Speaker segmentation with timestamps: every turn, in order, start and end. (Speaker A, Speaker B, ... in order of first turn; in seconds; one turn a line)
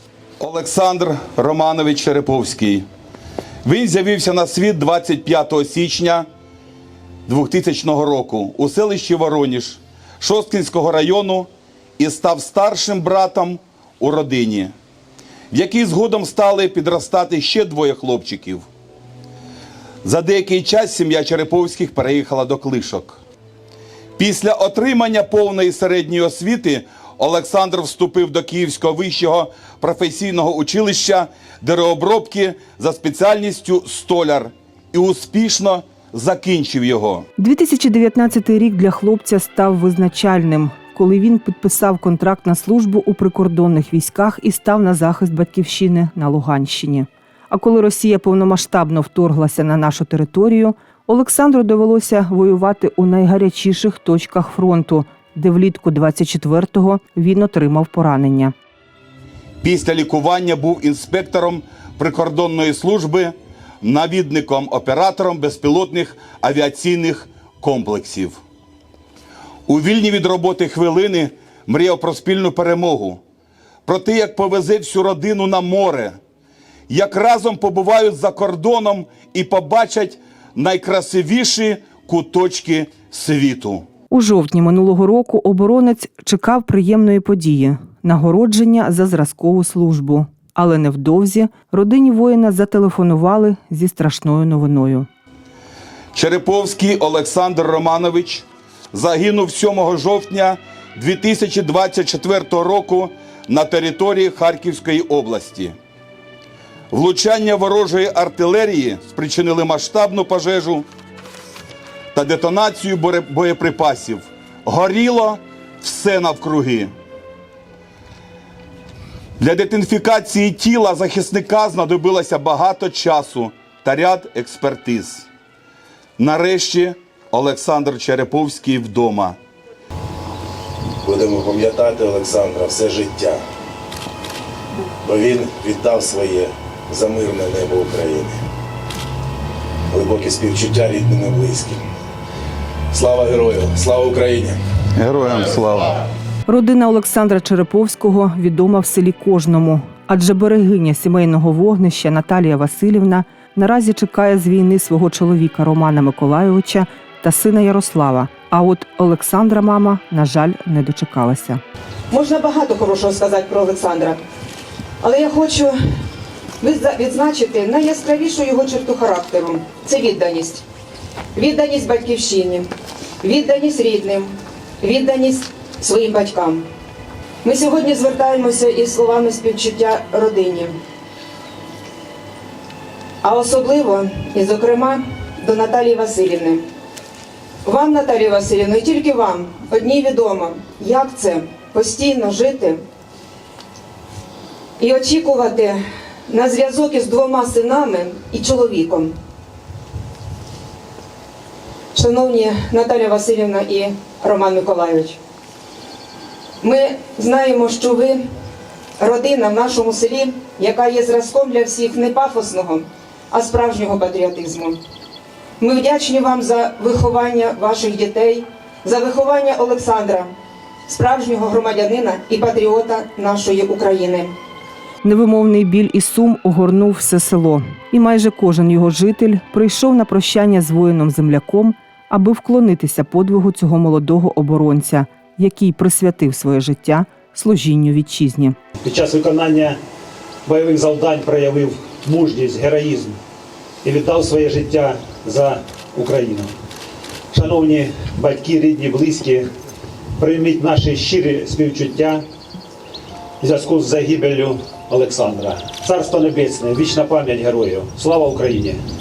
Speaker A: 0.4-2.9
Speaker A: 3.6-6.3
Speaker A: 7.3-14.7
Speaker A: 15.5-18.7
Speaker A: 20.0-23.2
Speaker A: 24.2-37.3
Speaker B: 37.4-58.5
Speaker A: 59.6-68.4
Speaker A: 69.7-73.2
Speaker A: 73.9-76.2
Speaker A: 76.9-83.8
Speaker B: 84.1-95.1
Speaker A: 96.1-105.8
Speaker A: 106.9-110.9
Speaker A: 112.1-116.9
Speaker A: 119.4-125.3
Speaker A: 126.2-129.4
Speaker C: 131.0-133.4
Speaker C: 135.1-138.4
Speaker C: 139.9-141.8
Speaker C: 142.9-144.6
Speaker A: 145.0-146.0
Speaker B: 146.5-161.6
Speaker D: 162.1-164.2
Speaker D: 165.0-165.8
Speaker D: 166.6-170.6
Speaker D: 171.3-172.7
Speaker D: 173.2-176.7
Speaker D: 177.4-180.8
Speaker D: 183.2-186.7
Speaker D: 187.7-192.8
Speaker D: 194.8-199.1
Speaker D: 201.9-205.2
Speaker D: 206.6-208.2
Speaker D: 209.0-214.8
Speaker D: 215.6-220.3
Speaker D: 220.9-224.3
Speaker B: 225.0-238.6
Speaker E: 238.8-239.8
Speaker E: 240.5-243.2
Speaker E: 243.8-246.5
Speaker E: 247.3-249.5
Speaker E: 250.2-252.2
Speaker E: 253.4-258.8